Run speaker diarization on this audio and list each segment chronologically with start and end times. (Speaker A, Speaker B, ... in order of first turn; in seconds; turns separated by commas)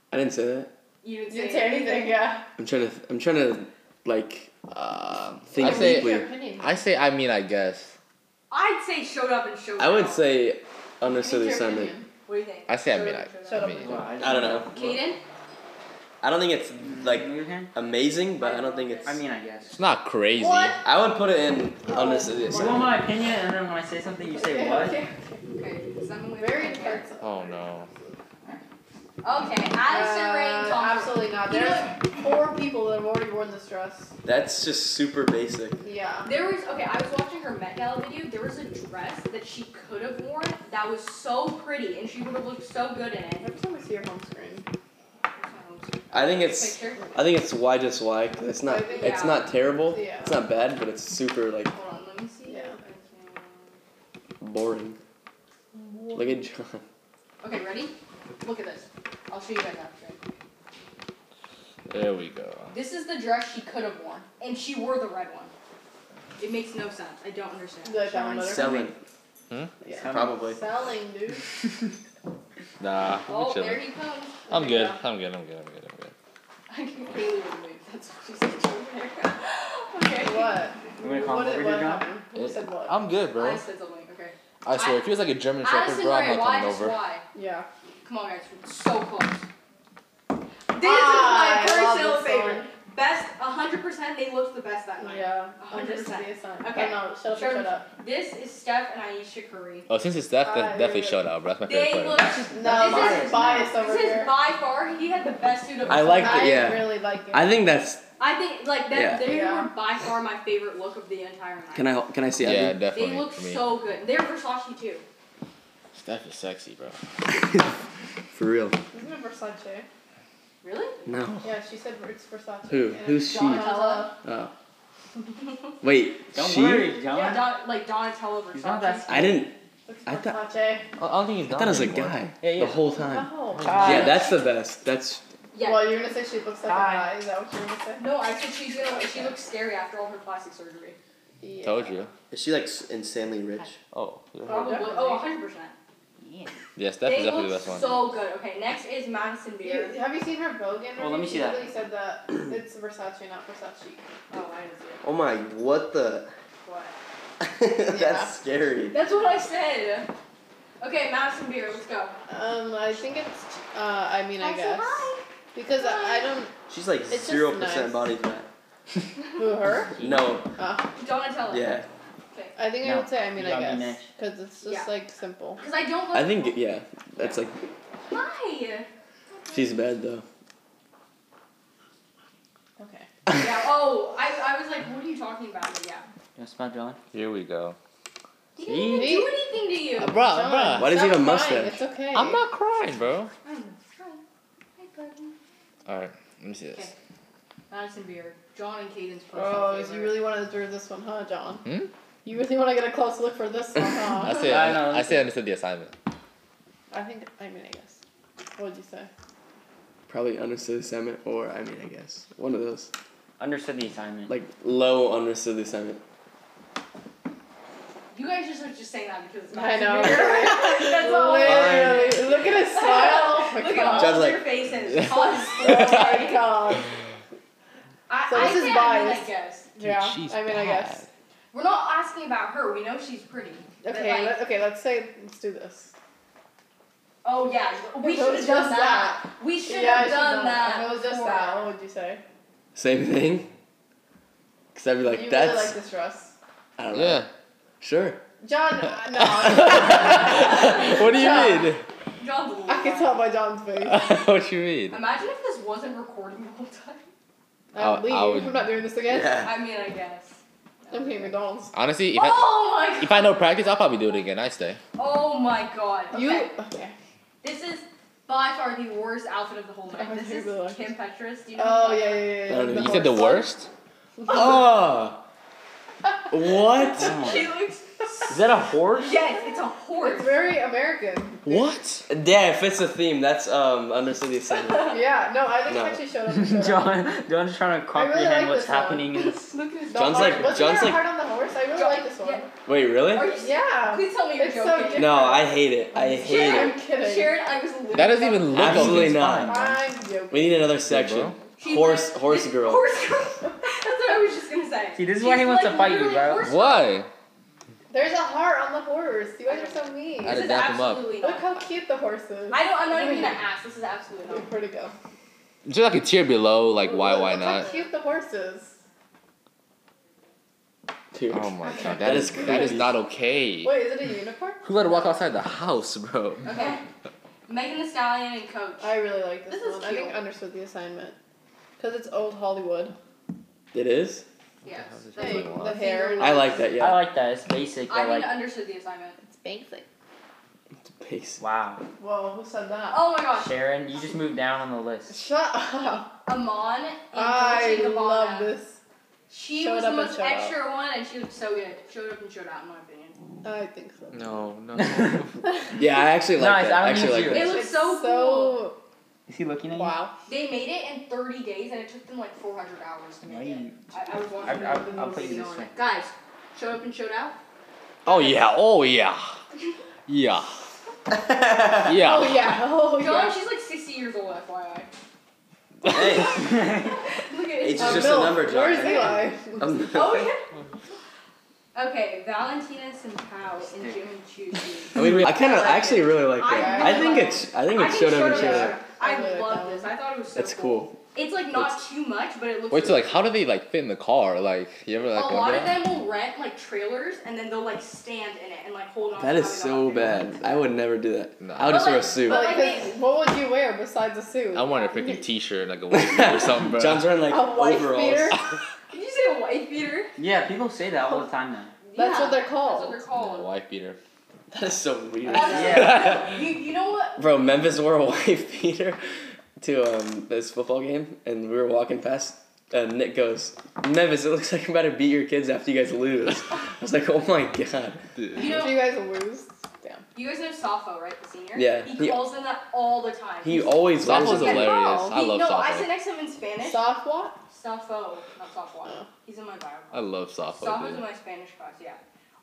Speaker A: 0.1-0.7, Speaker B: 1.0-2.3, Speaker C: 1.3-2.5, Speaker A: 2.6-4.6, Speaker D: 4.7-7.9, Speaker A: 5.5-6.3, Speaker C: 5.6-6.8, Speaker B: 8.5-10.3, Speaker A: 9.8-11.9, Speaker B: 11.1-13.8, Speaker C: 11.6-12.1, Speaker D: 12.7-13.9, Speaker C: 13.5-14.5, Speaker E: 13.8-15.1, Speaker A: 14.2-14.7, Speaker B: 14.6-15.2, Speaker A: 16.2-19.2, Speaker E: 16.8-17.7, Speaker B: 18.4-19.2, Speaker E: 19.1-19.8, Speaker D: 19.7-20.8, Speaker B: 20.4-20.8, Speaker A: 20.8-23.0, Speaker C: 21.9-22.9, Speaker E: 22.5-25.0, Speaker C: 24.3-25.4, Speaker B: 25.5-27.1, Speaker C: 26.4-28.0, Speaker D: 27.2-27.9, Speaker B: 29.2-31.9, Speaker C: 29.9-34.1, Speaker A: 34.2-35.8, Speaker C: 35.8-36.3, Speaker B: 36.2-43.5, Speaker C: 43.4-44.7, Speaker B: 45.3-47.0, Speaker A: 46.1-51.7, Speaker C: 48.6-50.4, Speaker B: 48.9-49.5, Speaker B: 51.7-53.8, Speaker C: 52.5-52.8, Speaker A: 54.4-55.0, Speaker C: 55.7-56.5, Speaker A: 56.1-56.8, Speaker B: 57.4-60.2, Speaker D: 61.9-62.7, Speaker B: 62.7-65.5, Speaker B: 66.4-68.1, Speaker C: 67.8-68.9, Speaker E: 68.2-68.8, Speaker A: 68.3-69.0, Speaker D: 69.5-69.8, Speaker C: 69.8-71.5, Speaker E: 70.0-70.4, Speaker A: 70.0-70.6, Speaker D: 72.8-73.9, Speaker B: 73.3-74.4, Speaker C: 74.5-75.0, Speaker D: 74.5-76.1, Speaker B: 76.7-81.0, Speaker C: 80.2-83.0, Speaker E: 81.0-82.1, Speaker D: 82.4-83.6, Speaker B: 83.3-85.1, Speaker D: 84.6-87.0, Speaker B: 85.6-87.2, Speaker C: 87.3-87.7, Speaker B: 88.0-89.5, Speaker B: 90.7-99.9, Speaker C: 90.8-92.7, Speaker C: 95.0-97.9, Speaker D: 99.9-102.3, Speaker C: 100.4-101.2, Speaker B: 101.7-106.7, Speaker E: 102.2-103.8, Speaker C: 102.5-104.4, Speaker A: 105.9-108.0, Speaker C: 106.2-107.5, Speaker B: 108.2-111.9, Speaker A: 108.9-109.3, Speaker C: 109.2-109.7, Speaker A: 111.7-112.8, Speaker D: 112.4-113.7, Speaker B: 112.9-115.0, Speaker D: 115.9-117.0, Speaker A: 118.3-118.8, Speaker C: 118.9-119.9, Speaker B: 120.6-121.0, Speaker A: 121.0-121.5, Speaker C: 121.4-124.2, Speaker A: 122.7-124.5, Speaker B: 123.2-124.1, Speaker A: 125.8-127.0, Speaker E: 126.3-127.5, Speaker B: 127.1-129.3, Speaker E: 128.5-129.3, Speaker A: 129.1-129.6, Speaker C: 129.9-130.9, Speaker A: 130.1-130.4, Speaker D: 131.0-132.2, Speaker A: 131.4-135.2, Speaker E: 132.4-132.8, Speaker C: 132.9-134.1, Speaker D: 133.5-134.1, Speaker E: 133.7-134.1, Speaker B: 133.9-134.5, Speaker B: 135.5-136.0, Speaker C: 135.6-138.1, Speaker E: 136.6-137.1, Speaker B: 138.0-141.0, Speaker C: 141.4-142.0, Speaker D: 141.6-142.1, Speaker A: 142.3-143.8, Speaker D: 143.9-144.8, Speaker C: 144.4-145.3, Speaker B: 144.4-145.7, Speaker D: 146.8-148.1, Speaker B: 147.0-149.9, Speaker C: 149.6-154.1, Speaker E: 151.0-151.7, Speaker B: 154.3-155.0, Speaker A: 155.0-156.3, Speaker B: 156.6-156.9, Speaker A: 157.4-159.0, Speaker C: 157.8-158.3, Speaker B: 158.9-160.1, Speaker B: 160.8-162.2, Speaker C: 162.3-166.5, Speaker B: 164.4-166.3, Speaker A: 166.7-168.5, Speaker C: 167.1-168.1, Speaker C: 169.4-170.0, Speaker E: 169.9-170.3, Speaker A: 170.0-170.5, Speaker C: 170.6-170.9, Speaker B: 171.0-171.7, Speaker A: 171.5-171.9, Speaker C: 172.6-175.6, Speaker E: 172.8-174.1, Speaker B: 174.6-174.9, Speaker B: 175.6-176.6, Speaker A: 176.1-177.7, Speaker B: 178.1-178.9, Speaker A: 179.5-180.2, Speaker C: 182.8-183.1, Speaker B: 183.3-186.1, Speaker E: 186.4-187.0, Speaker D: 187.1-187.8, Speaker B: 188.6-190.2, Speaker E: 188.6-189.3, Speaker C: 188.8-189.4, Speaker D: 190.0-190.9, Speaker C: 190.1-192.4, Speaker A: 190.8-191.8, Speaker D: 192.1-193.3, Speaker B: 193.4-194.2, Speaker B: 194.8-195.3, Speaker D: 195.9-196.9, Speaker B: 197.7-200.2, Speaker C: 199.3-201.7, Speaker D: 201.6-201.9, Speaker C: 202.2-204.6, Speaker D: 204.2-205.9, Speaker E: 204.4-205.3, Speaker C: 206.9-208.0, Speaker C: 208.6-209.1, Speaker A: 210.1-212.9, Speaker E: 213.4-214.3, Speaker A: 214.3-216.0, Speaker B: 218.1-226.6, Speaker C: 219.5-224.3, Speaker A: 221.4-222.2, Speaker A: 223.8-224.5, Speaker C: 225.1-226.9, Speaker B: 228.1-229.7, Speaker C: 228.3-231.0, Speaker D: 229.8-231.1, Speaker B: 231.5-234.4, Speaker C: 233.8-235.9, Speaker B: 237.2-241.7, Speaker C: 238.0-242.2, Speaker A: 242.7-243.5, Speaker A: 244.7-245.7, Speaker C: 245.0-246.3, Speaker A: 246.8-247.2, Speaker D: 246.9-247.3, Speaker A: 247.8-248.2, Speaker C: 248.4-251.7, Speaker D: 249.4-251.8, Speaker B: 250.3-251.6, Speaker A: 250.4-251.4, Speaker B: 252.2-253.2, Speaker C: 252.7-254.2, Speaker D: 253.8-255.0, Speaker B: 254.9-257.1, Speaker C: 257.7-259.5, Speaker D: 257.8-258.9, Speaker A: 259.1-259.5, Speaker B: 259.3-261.3, Speaker C: 260.9-261.7, Speaker D: 261.7-264.8, Speaker B: 262.1-263.4, Speaker B: 264.9-266.5, Speaker C: 266.1-266.9, Speaker B: 267.4-272.4, Speaker C: 269.9-270.9, Speaker C: 271.6-273.5, Speaker A: 272.5-273.2, Speaker D: 272.7-273.7, Speaker C: 274.2-274.6, Speaker A: 274.3-275.2, Speaker A: 276.3-277.2, Speaker B: 276.9-278.4, Speaker E: 277.0-277.4, Speaker E: 278.3-279.2, Speaker B: 278.9-280.4, Speaker C: 280.0-281.7, Speaker D: 281.4-282.1, Speaker A: 282.1-284.9, Speaker C: 284.8-287.1, Speaker A: 285.7-286.0, Speaker E: 286.3-289.4, Speaker C: 287.9-289.1, Speaker B: 289.1-290.9, Speaker C: 289.9-292.5, Speaker A: 289.9-291.1, Speaker B: 291.7-292.5, Speaker A: 292.7-293.3, Speaker B: 293.1-295.4, Speaker C: 293.4-297.4, Speaker A: 294.9-296.8, Speaker B: 296.2-298.7, Speaker D: 297.9-299.7, Speaker A: 298.6-299.6, Speaker E: 298.6-299.5, Speaker C: 299.5-300.6, Speaker A: 300.3-302.8, Speaker D: 300.8-301.4, Speaker B: 301.6-307.0, Speaker E: 304.9-306.5, Speaker D: 306.4-307.1, Speaker C: 307.9-310.5, Speaker B: 309.5-311.6, Speaker D: 310.2-311.1, Speaker C: 311.2-313.4, Speaker B: 312.5-314.5, Speaker C: 314.3-314.9, Speaker D: 315.6-317.7, Speaker C: 316.8-318.8, Speaker B: 317.3-317.9, Speaker A: 321.1-323.0, Speaker D: 321.3-323.8, Speaker B: 321.7-322.2, Speaker C: 323.6-325.5, Speaker D: 324.6-326.7, Speaker B: 326.4-326.8, Speaker B: 327.5-328.9, Speaker C: 328.8-331.2, Speaker B: 329.5-330.2, Speaker C: 331.8-332.9, Speaker A: 333.7-334.3, Speaker B: 334.6-336.6, Speaker D: 334.9-335.9, Speaker C: 335.2-336.7, Speaker A: 336.2-337.1, Speaker E: 336.8-338.4, Speaker B: 337.9-339.2, Speaker C: 339.2-339.9, Speaker A: 340.8-341.4, Speaker E: 341.4-341.8, Speaker C: 342.0-343.1, Speaker B: 342.9-343.5, Speaker E: 343.4-345.2, Speaker C: 345.1-346.1, Speaker B: 346.3-348.5, Speaker C: 347.1-348.8, Speaker B: 349.3-353.2, Speaker C: 349.6-350.6, Speaker C: 353.4-354.5, Speaker D: 354.1-355.4, Speaker E: 354.8-355.2, Speaker A: 355.7-357.6, Speaker E: 356.4-357.6, Speaker B: 357.3-358.7, Speaker C: 357.3-358.8, Speaker E: 359.3-360.0, Speaker C: 359.7-360.1, Speaker B: 360.3-367.4, Speaker E: 363.2-363.8, Speaker E: 364.4-365.7, Speaker C: 364.4-365.7, Speaker D: 368.1-369.3, Speaker B: 368.1-368.4, Speaker D: 370.1-370.6, Speaker A: 371.1-371.8, Speaker D: 371.8-372.5, Speaker C: 371.9-373.4, Speaker B: 373.0-374.9, Speaker A: 375.8-376.7, Speaker B: 375.9-378.9, Speaker E: 376.4-376.9, Speaker A: 377.6-380.3, Speaker C: 377.8-379.7, Speaker B: 379.9-380.4, Speaker B: 381.7-393.2, Speaker E: 383.7-384.0, Speaker D: 384.9-385.4, Speaker A: 384.9-388.8, Speaker C: 386.4-387.4, Speaker C: 387.9-389.9, Speaker A: 390.3-391.0, Speaker D: 392.7-395.9, Speaker B: 395.1-400.5, Speaker A: 399.2-402.6, Speaker D: 401.4-402.1, Speaker B: 401.7-402.9, Speaker C: 402.2-405.2, Speaker D: 404.5-407.1, Speaker A: 405.9-408.4, Speaker C: 407.3-408.4, Speaker B: 408.9-410.1, Speaker E: 410.2-411.7, Speaker B: 411.8-413.5, Speaker C: 411.9-413.0, Speaker D: 413.1-414.0, Speaker A: 414.5-416.2, Speaker B: 415.3-417.2, Speaker C: 415.3-415.8, Speaker E: 415.5-416.1, Speaker A: 417.2-419.0, Speaker A: 419.6-428.0, Speaker B: 428.3-428.8, Speaker C: 428.3-430.1, Speaker B: 430.1-436.8, Speaker A: 431.6-432.3, Speaker A: 433.4-434.9, Speaker D: 434.0-435.9, Speaker C: 436.6-437.4, Speaker B: 437.5-440.0, Speaker D: 439.9-441.1, Speaker B: 440.6-442.0